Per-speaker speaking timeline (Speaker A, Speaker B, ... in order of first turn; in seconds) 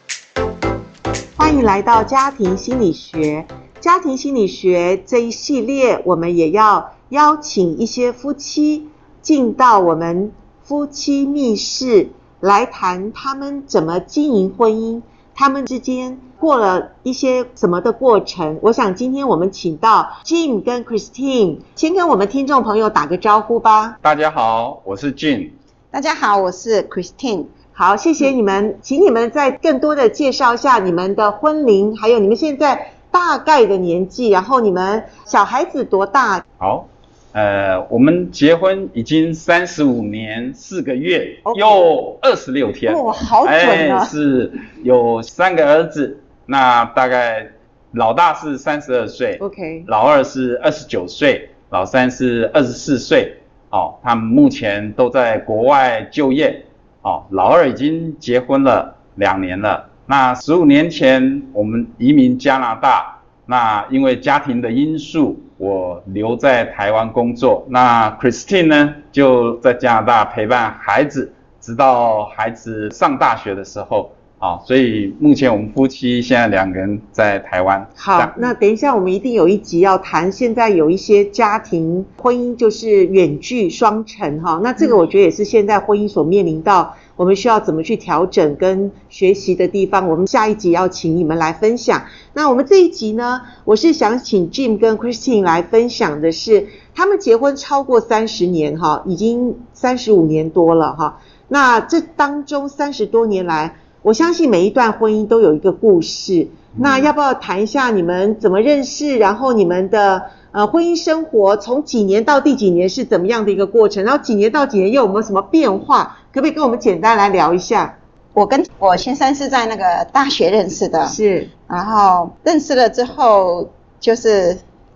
Speaker A: 1.4-24.0, 27.7-36.4, 41.5-41.9, 42.9-44.1, 49.4-49.9, 78.0-118.0, 121.0-121.5
Speaker B: 24.0-25.6, 36.6-78.5, 106.8-107.1
Speaker C: 25.9-27.5, 118.3-124.6